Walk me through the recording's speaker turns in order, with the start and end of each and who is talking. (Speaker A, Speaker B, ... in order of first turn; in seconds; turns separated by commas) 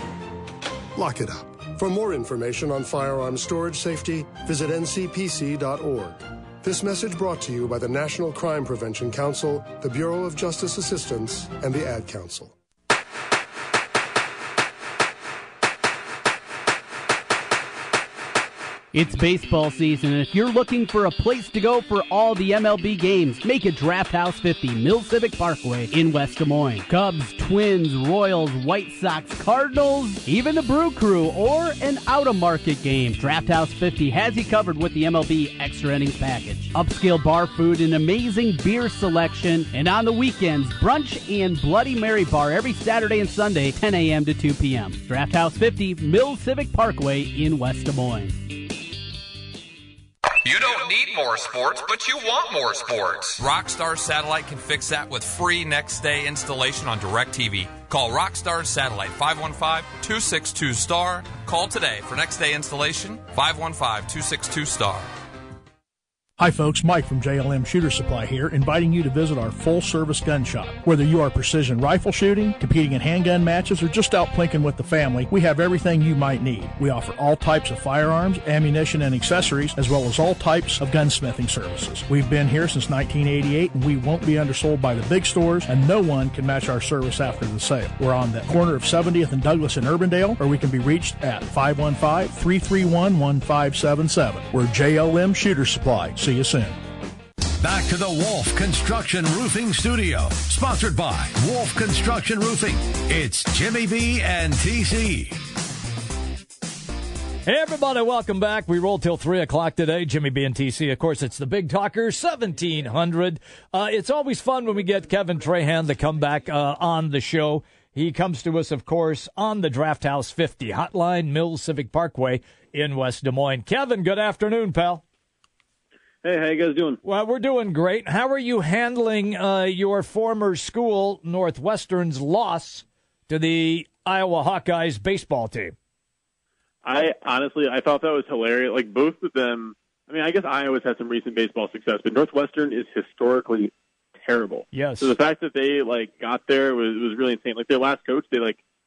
Speaker A: 0.9-12.5, Speaker B: 18.9-48.4, Speaker C: 50.4-65.1, Speaker D: 66.4-96.8, Speaker E: 97.6-105.4, Speaker F: 107.5-125.0, Speaker G: 126.2-127.0, Speaker F: 127.0-135.7, Speaker G: 136.8-148.6, Speaker F: 144.7-145.2